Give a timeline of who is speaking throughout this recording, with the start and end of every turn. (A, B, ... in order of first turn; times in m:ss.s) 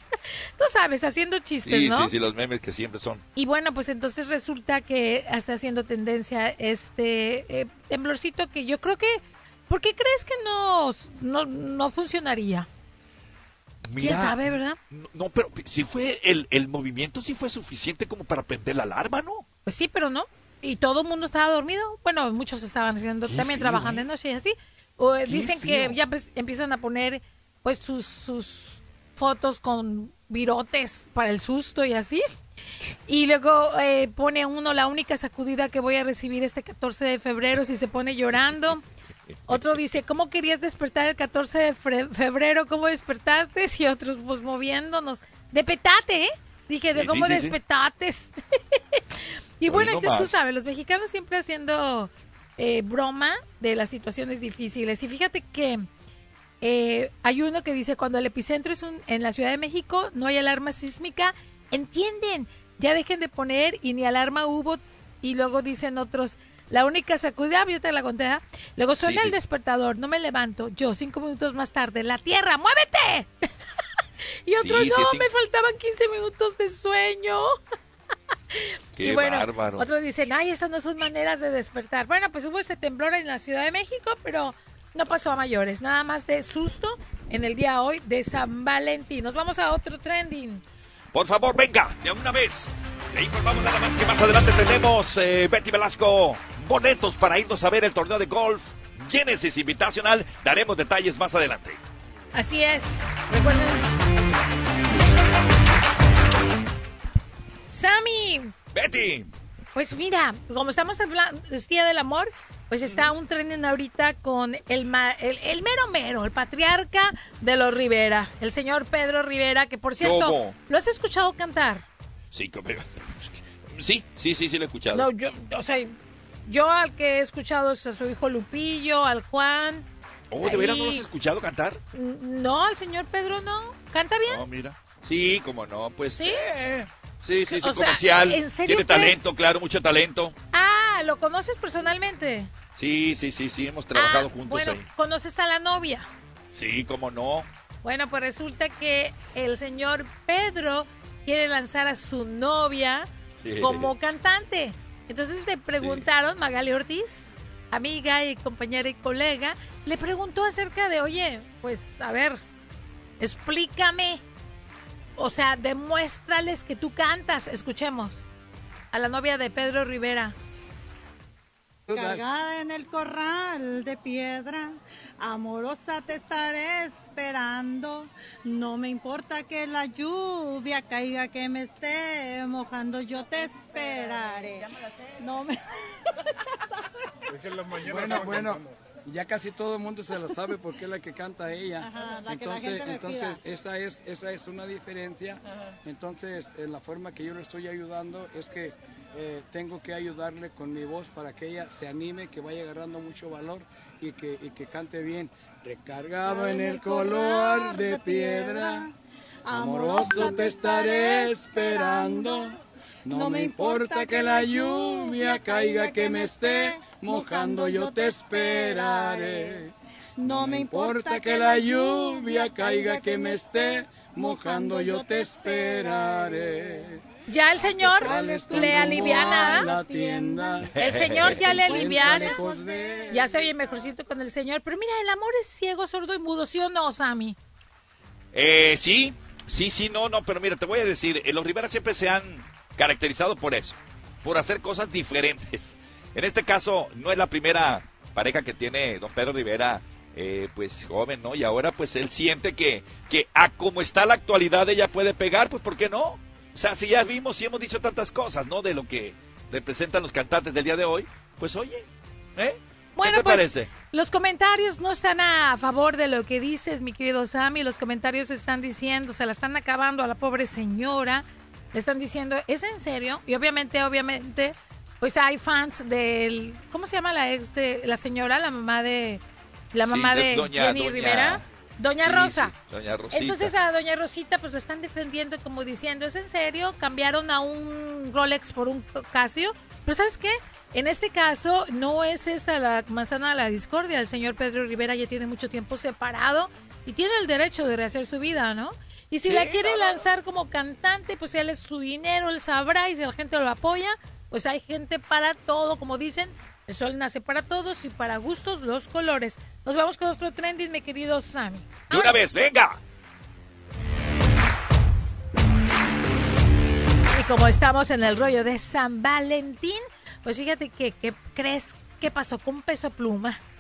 0:00.6-0:02.1 A
0:01.7-0:03.2 B
0:03.4-0:12.7 A
0:13.9-0:19.4 B
0:14.0-0:14.8 A
0:19.7-0:32.2 A
0:23.3-0:24.0 B
0:25.3-0:26.0 B
0:33.1-0:38.8 A
0:39.5-0:39.8 B
0:39.5-0:48.3 A
0:47.0-0:47.6 B
0:49.6-0:55.9 A
0:49.7-0:50.4 B
0:56.6-1:13.3 A
1:09.0-1:09.4 B
1:14.5-1:17.5 A
1:14.6-1:15.2 B
1:19.0-1:19.9 B
1:19.0-1:30.6 A
1:31.1-1:41.8 B
1:42.3-1:43.8 A
1:47.7-1:48.5 A
1:48.7-1:49.3 B
1:49.8-2:01.9 A
2:00.0-2:00.6 B
2:02.3-2:05.1 B
2:04.9-2:05.9 A
2:06.5-2:09.9 A
2:10.3-2:11.8 B
2:10.4-2:11.1 A
2:11.9-2:14.4 A
2:14.3-2:20.4 B
2:16.2-2:16.4 A
2:17.5-2:19.2 A
2:20.5-2:22.5 A
2:22.8-2:24.8 B
2:24.0-2:26.1 A
2:26.5-2:27.5 B
2:27.8-2:33.1 A
2:33.4-2:33.9 B
2:33.6-2:42.4 A
2:35.8-2:36.0 B
2:43.2-2:44.2 A
2:45.2-2:48.2 A
2:48.9-2:50.4 A
2:51.9-2:52.2 C
2:51.9-3:04.7 D
3:05.2-3:05.6 D
3:07.5-3:28.9 C
3:08.0-3:08.4 D
3:11.8-3:13.4 D
3:26.2-3:28.9 D
3:29.5-3:32.6 D
3:29.5-3:32.5 C
3:33.1-3:47.0 C
3:33.1-3:39.6 D
3:40.2-3:43.5 D
3:44.2-3:46.2 D
3:47.3-3:49.7 A
3:47.8-3:53.3 C
3:47.8-3:50.7 D
3:50.7-3:51.4 B
3:50.8-3:52.4 A
3:51.4-3:53.2 D
3:53.1-3:57.4 A
3:58.3-4:23.7 B
4:23.0-4:39.2 A
4:39.7-4:42.5 A
4:39.9-4:41.4 B
4:42.0-4:43.5 B
4:43.1-5:12.2 A
4:59.3-5:00.0 B
5:11.9-5:12.8 B
5:17.1-5:23.4 A